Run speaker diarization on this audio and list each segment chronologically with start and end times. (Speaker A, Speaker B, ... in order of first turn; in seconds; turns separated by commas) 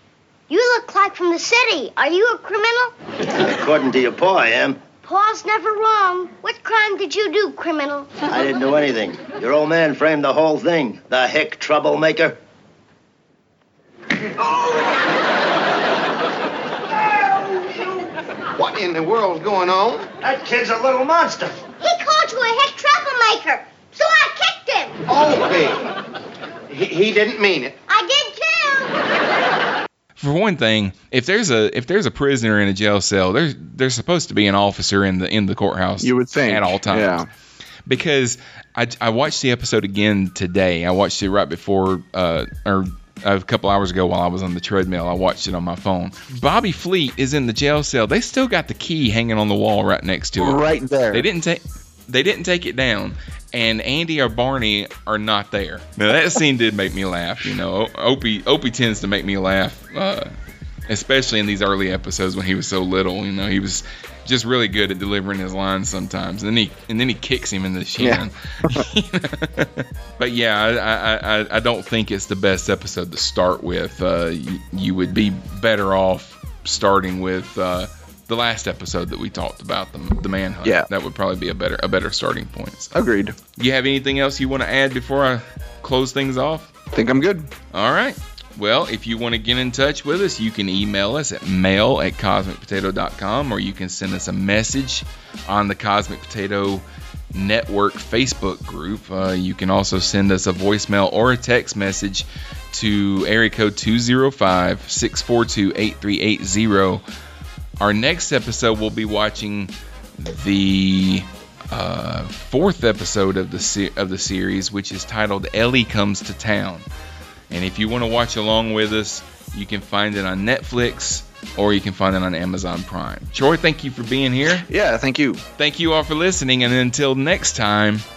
Speaker A: 0.5-2.9, Speaker B: 3.3-4.8, Speaker A: 5.0-8.1, Speaker B: 8.3-12.3, Speaker B: 14.2-15.0, Speaker B: 17.0-18.0, Speaker C: 18.6-20.1, Speaker B: 20.2-21.6, Speaker A: 21.8-25.0, Speaker C: 25.1-25.9, Speaker C: 26.7-27.8, Speaker A: 27.9-29.0, Speaker D: 30.2-37.1, Speaker E: 36.0-37.3, Speaker D: 37.9-50.6, Speaker E: 50.4-51.2, Speaker D: 51.1-60.3, Speaker D: 60.9-82.9, Speaker E: 68.0-68.8, Speaker E: 82.9-83.3, Speaker D: 83.5-86.7, Speaker E: 86.9-87.5, Speaker D: 87.7-107.0, Speaker D: 107.8-116.8, Speaker D: 117.5-124.7, Speaker E: 124.7-125.4, Speaker D: 125.6-128.0